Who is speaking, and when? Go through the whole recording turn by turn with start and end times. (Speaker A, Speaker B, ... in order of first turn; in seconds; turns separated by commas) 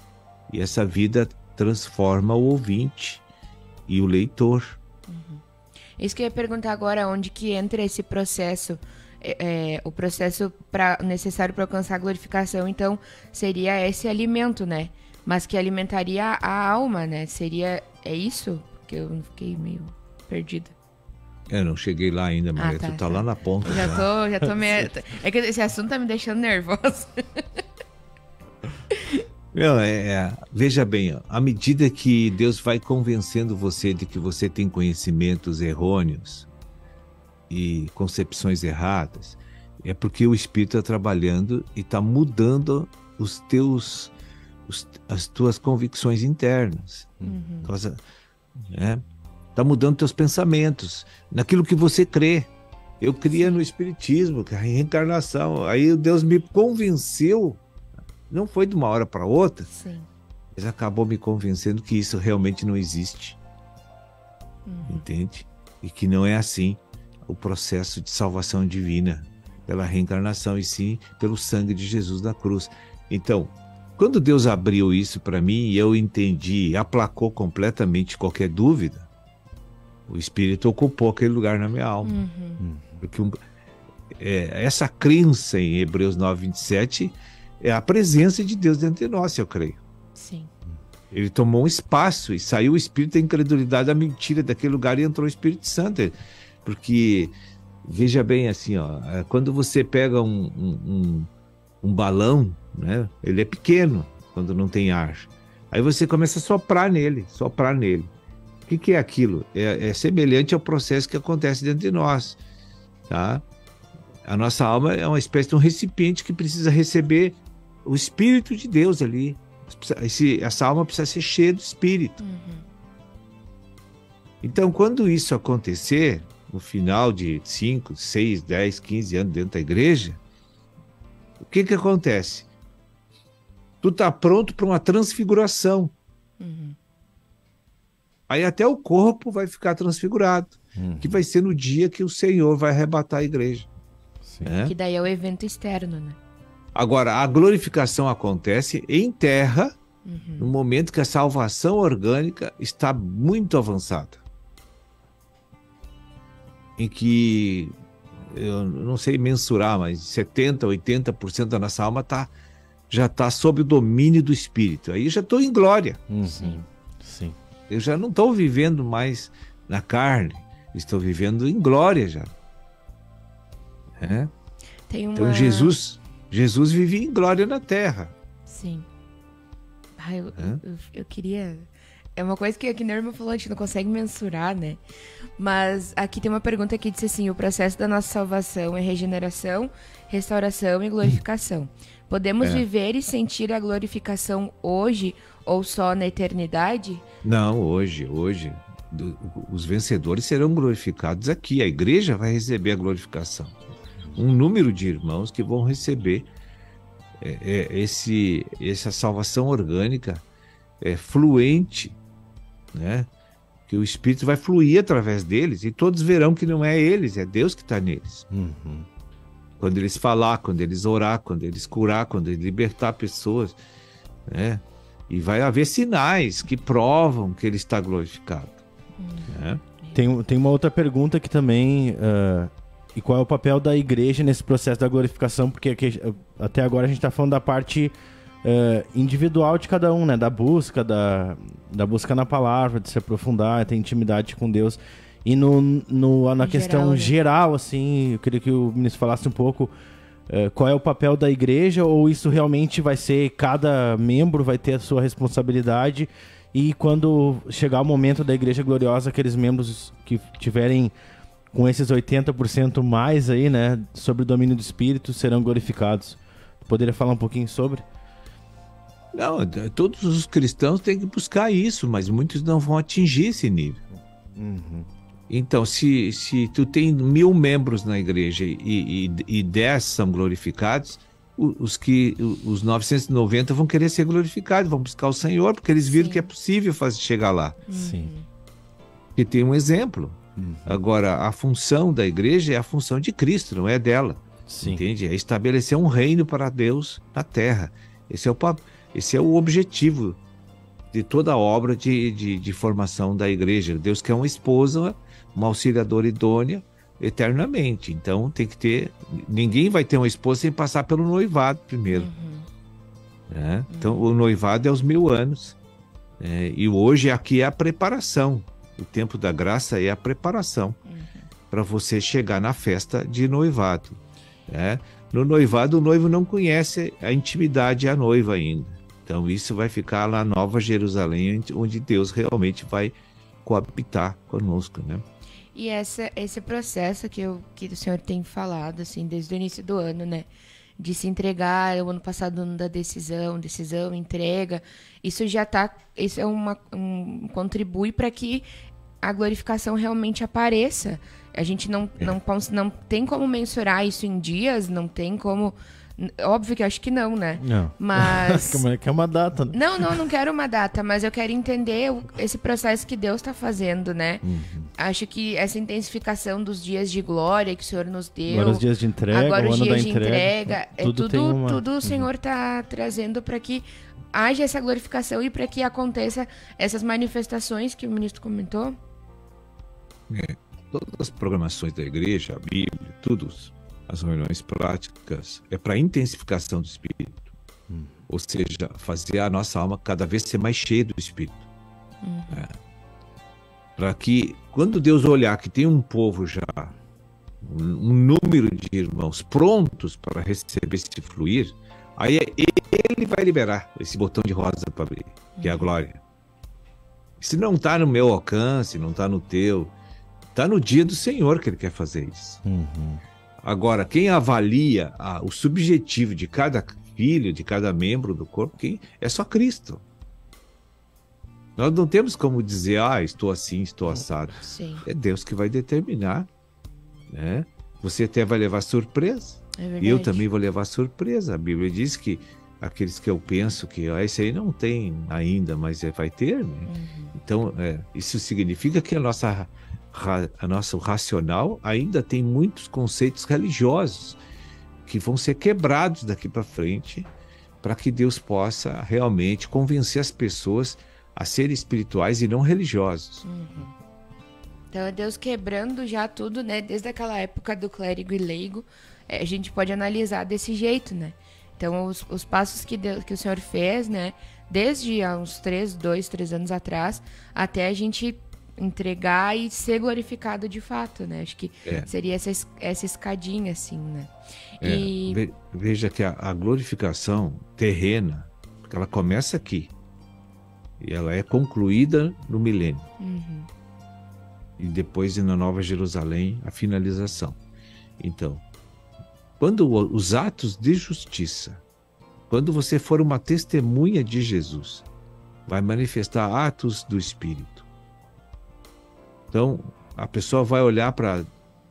Speaker A: 0.5-3.2, Speaker A: 3.9-4.8, Speaker B: 5.1-5.4, Speaker B: 6.0-20.7, Speaker A: 21.5-24.1, Speaker B: 22.6-27.4, Speaker A: 29.5-36.5, Speaker A: 37.5-44.1, Speaker A: 44.7-47.1, Speaker B: 47.3-47.7, Speaker A: 47.6-48.0, Speaker A: 48.6-49.0, Speaker A: 49.6-52.5, Speaker A: 53.0-57.6, Speaker B: 53.3-53.7, Speaker A: 58.3-59.6, Speaker B: 59.7-60.1, Speaker A: 60.5-63.4, Speaker B: 64.7-65.1, Speaker A: 64.9-79.1, Speaker A: 80.1-82.2, Speaker B: 82.0-82.6, Speaker C: 82.6-83.0, Speaker A: 83.0-83.3, Speaker A: 84.2-89.8, Speaker B: 90.2-90.5, Speaker A: 91.1-101.3, Speaker A: 101.8-108.1, Speaker A: 108.7-112.4, Speaker A: 113.1-113.4, Speaker A: 114.2-122.2, Speaker B: 122.2-122.7, Speaker A: 124.4-130.2, Speaker A: 131.4-132.5, Speaker A: 133.8-135.9, Speaker B: 136.4-136.8, Speaker A: 138.3-143.7, Speaker C: 140.8-141.2, Speaker C: 144.2-144.5, Speaker A: 144.4-144.7, Speaker B: 144.6-146.2, Speaker A: 146.8-149.7, Speaker B: 150.1-150.6, Speaker A: 150.4-154.2, Speaker A: 156.8-162.3, Speaker A: 162.9-166.0, Speaker C: 166.1-167.4, Speaker B: 166.3-166.6, Speaker A: 167.7-172.3, Speaker A: 174.0-174.3, Speaker B: 174.9-175.8, Speaker A: 175.2-178.1, Speaker B: 178.5-178.9, Speaker B: 180.0-184.8, Speaker B: 185.4-197.1, Speaker A: 197.2-203.6, Speaker A: 204.2-206.3, Speaker A: 207.2-210.2, Speaker A: 210.8-212.0, Speaker A: 212.7-213.1, Speaker A: 213.7-218.2, Speaker C: 218.3-218.9, Speaker A: 219.6-223.6, Speaker A: 224.3-228.6, Speaker B: 229.0-230.0, Speaker A: 229.3-229.6, Speaker C: 229.9-249.7, Speaker B: 246.4-247.2, Speaker C: 250.3-260.9, Speaker C: 261.5-267.9, Speaker A: 269.1-273.8, Speaker C: 274.4-274.9, Speaker A: 275.3-287.6, Speaker B: 285.9-286.3, Speaker B: 287.7-288.3, Speaker C: 287.7-288.1, Speaker A: 289.2-300.2, Speaker C: 290.4-290.8, Speaker C: 294.5-294.9, Speaker A: 300.9-312.1, Speaker B: 311.9-312.5, Speaker A: 313.3-315.6, Speaker B: 313.7-314.1, Speaker A: 316.2-320.8, Speaker B: 320.9-321.3, Speaker A: 321.5-335.0, Speaker B: 335.6-348.5, Speaker B: 349.0-358.6, Speaker C: 357.4-359.6, Speaker B: 359.5-364.2, Speaker C: 364.2-364.7, Speaker B: 364.8-378.8, Speaker C: 368.3-372.1, Speaker A: 380.1-387.3, Speaker C: 387.7-388.0, Speaker A: 388.1-391.5, Speaker B: 392.0-392.5, Speaker A: 393.8-396.8, Speaker A: 397.4-406.0, Speaker B: 405.4-405.7, Speaker A: 407.2-409.7, Speaker A: 410.3-412.4, Speaker C: 412.4-413.0, Speaker A: 413.4-419.8, Speaker A: 421.6-426.3, Speaker B: 424.4-424.9, Speaker A: 427.1-444.2, Speaker B: 429.6-430.2, Speaker B: 436.7-437.1, Speaker A: 444.9-447.1, Speaker A: 447.6-453.2, Speaker B: 453.2-453.7, Speaker B: 454.7-475.2, Speaker A: 474.6-479.7, Speaker A: 480.8-482.9, Speaker B: 483.0-483.5, Speaker A: 484.6-487.4, Speaker A: 488.0-488.4, Speaker A: 489.4-491.6, Speaker A: 492.3-494.9, Speaker A: 495.5-497.6, Speaker A: 499.3-501.3